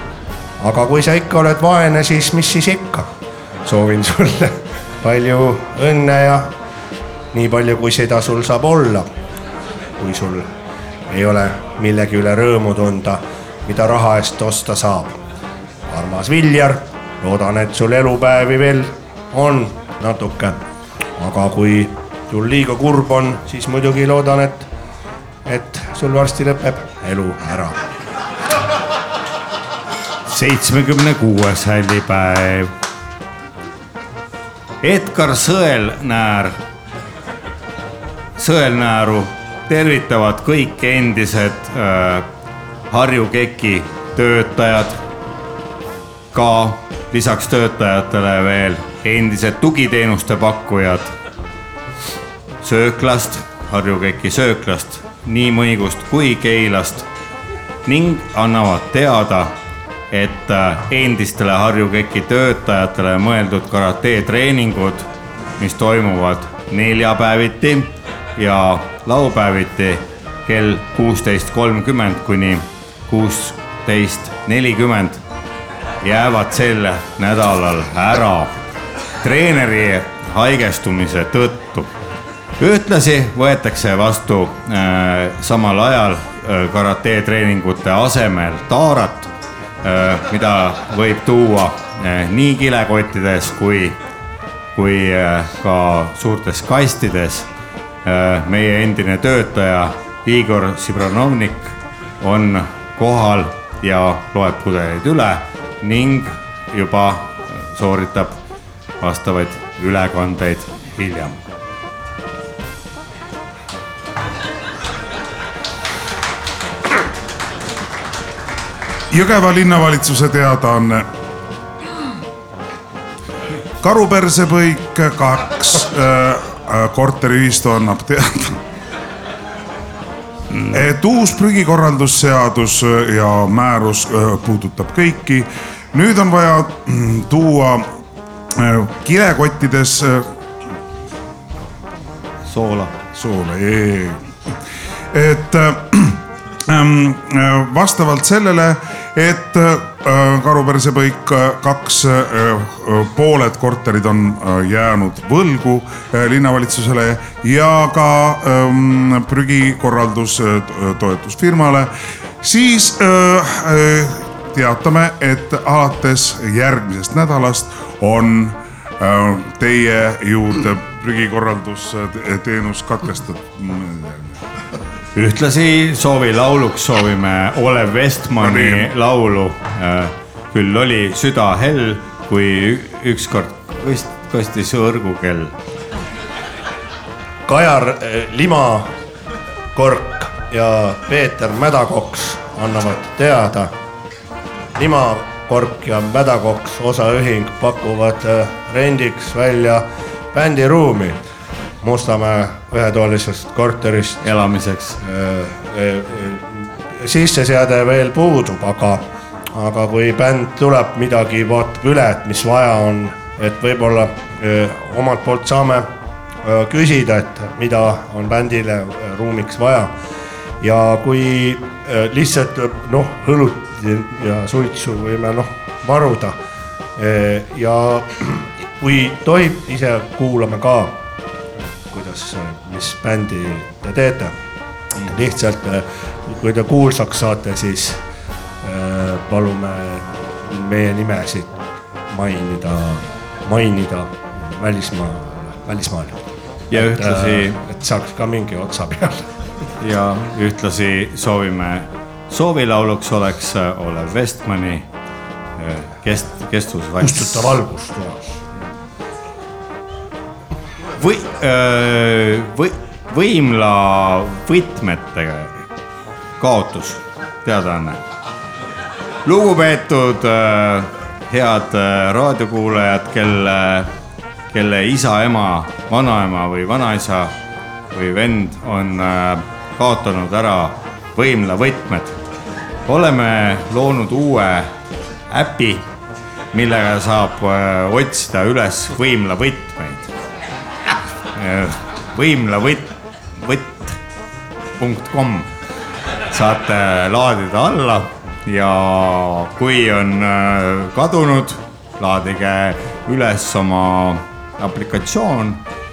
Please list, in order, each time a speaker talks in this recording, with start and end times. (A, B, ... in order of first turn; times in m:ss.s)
0:00.6-0:03.1 A
0:03.6-0:06.5 A
0:07.3-0:09.1 A
0:10.0-0:10.5 A
0:11.1-0:15.2 A
0:15.9-0:20.6 A
0:21.2-0:24.6 A
0:25.5-0:27.8 A
0:30.3-0:32.7 B
0:34.8-0:36.6 B
0:38.4-0:42.3 B
0:42.9-0:45.0 B
0:46.3-0:51.1 B
0:52.6-0:57.1 B
0:57.9-0:59.5 B
1:00.1-1:05.1 B
1:05.6-1:15.2 B
1:16.0-1:18.6 B
1:19.2-1:21.9 B
1:22.6-1:29.3 B
1:29.8-1:34.0 B
1:34.8-1:37.5 B
1:38.0-1:48.4 B
1:49.0-1:51.4 B
1:59.1-2:01.1 C
2:03.8-2:08.6 C
2:10.6-2:17.9 C
2:18.6-2:20.3 C
2:22.5-2:22.9 B
2:23.1-2:24.2 C
2:25.1-2:41.9 C
2:42.4-2:54.4 C
2:55.2-3:05.5 B
2:58.4-2:58.9 C
3:07.5-3:08.9 A
3:09.8-3:13.7 A
3:14.8-3:21.2 A
3:21.8-3:24.3 A
3:24.2-3:25.0 B
3:25.0-3:29.0 A
3:29.5-3:35.9 A
3:36.4-3:39.9 A
3:40.6-3:46.4 A
3:47.0-3:51.0 A
3:51.9-3:54.3 A
3:55.0-3:58.0 A
3:58.6-4:01.5 A
4:02.1-4:06.2 A
4:06.7-4:07.6 B
4:06.7-4:09.2 A
4:09.8-4:14.9 B
4:15.6-4:17.6 B
4:17.0-4:18.4 A
4:21.0-4:25.6 B
4:26.4-4:28.0 B
4:29.2-4:33.9 B
4:34.5-4:37.3 B
4:37.9-4:42.2 B
4:42.9-4:44.7 B
4:45.3-4:45.9 B
4:46.5-4:50.1 B
4:51.3-4:54.0 B
4:54.8-4:55.5 B
4:56.3-5:05.6 B